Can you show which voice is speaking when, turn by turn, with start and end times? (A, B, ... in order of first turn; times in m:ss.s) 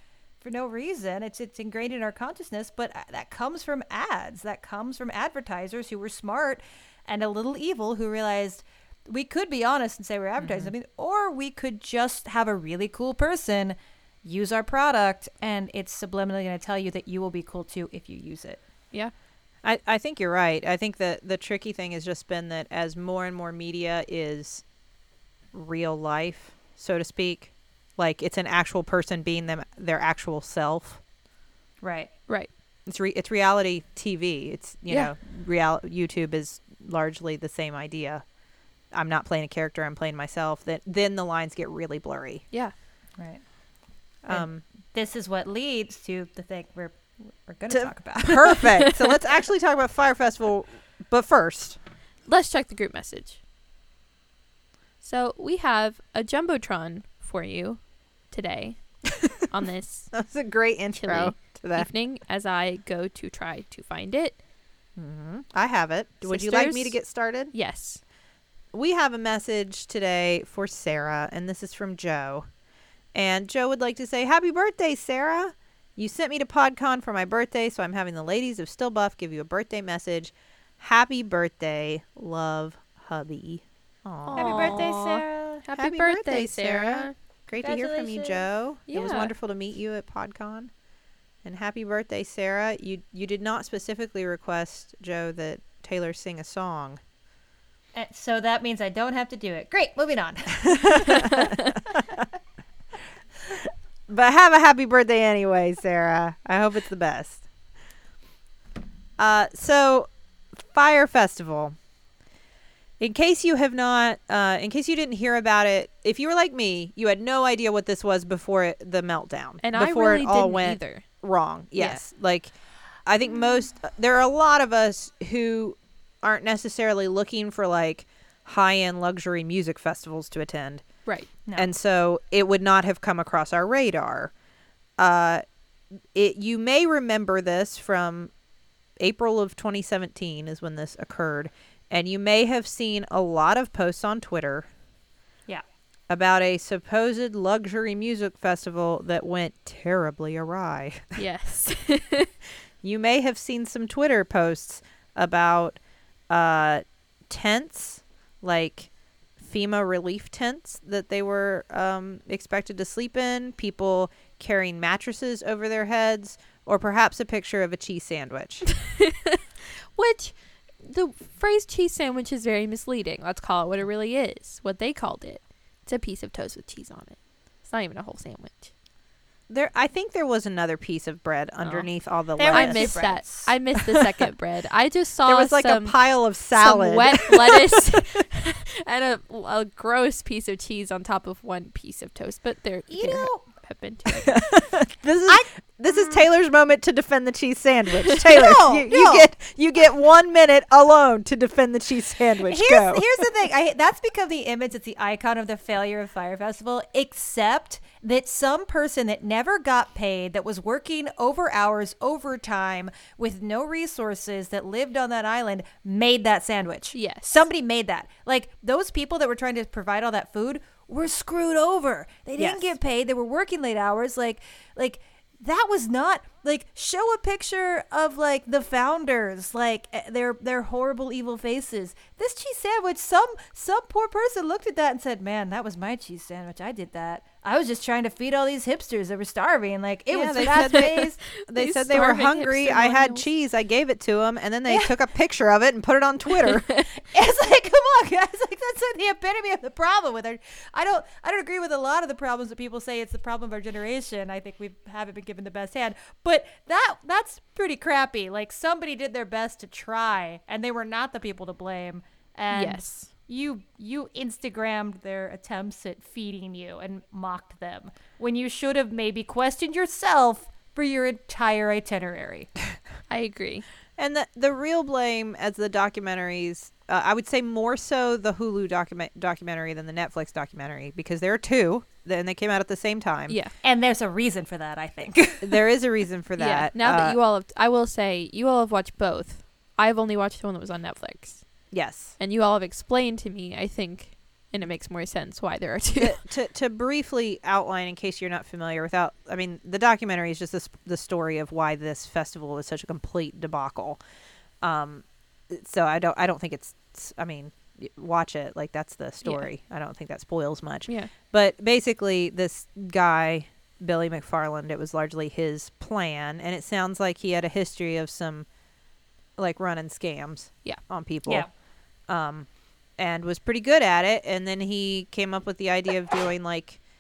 0:00.4-0:18.6 A
0:10.4-0:10.7 B
0:19.6-0:24.7 B
0:25.5-0:31.0 B
0:31.8-0:32.1 A
0:32.9-0:38.2 B
0:34.9-0:35.1 C
0:38.9-0:42.4 B
0:43.2-0:43.6 A
0:44.2-0:48.6 A
0:44.2-0:44.6 B
0:47.7-0:51.8 B
0:52.3-0:53.4 C
0:55.0-1:00.2 C
1:00.1-1:01.9 B
1:01.0-1:04.4 C
1:05.0-1:07.5 B
1:06.2-1:08.0 C
1:08.7-1:12.5 B
1:13.1-1:25.0 B
1:24.3-1:27.1 C
1:24.4-1:25.6 A
1:25.6-1:30.7 B
1:27.6-1:28.4 A
1:28.9-1:29.3 C
1:31.4-1:37.0 B
1:37.9-1:41.2 A
1:40.7-1:41.5 B
1:44.1-1:47.5 B
1:49.2-1:51.8 B
1:53.0-2:14.3 B
1:59.6-2:01.0 C
2:01.8-2:02.0 C
2:15.0-2:15.4 B
2:16.1-2:18.3 B
2:19.0-2:24.7 B
2:26.1-2:31.2 B
2:31.2-2:32.3 C
2:32.8-2:48.7 B
2:50.0-2:58.7 C
2:59.5-3:03.2 B
3:01.6-3:14.4 C
3:02.4-3:03.5 A
3:05.2-3:07.7 B
3:12.9-3:13.4 A
3:14.3-3:23.1 B
3:15.3-3:16.2 A
3:18.2-3:19.3 A
3:22.5-4:01.1 A
3:36.9-3:37.4 C
3:42.4-3:42.7 B
4:00.1-4:06.7 B
4:00.4-4:03.3 C
4:07.0-4:32.5 A
4:22.5-4:23.1 C
4:33.1-4:33.6 C
4:34.0-4:43.4 B
4:43.6-4:45.6 A
4:45.4-4:47.2 B
4:46.4-4:56.2 C
4:51.7-4:52.2 B
4:56.0-5:04.0 B
5:04.6-5:18.5 B
5:09.2-5:09.5 C
5:10.9-5:11.1 C
5:19.4-5:26.8 B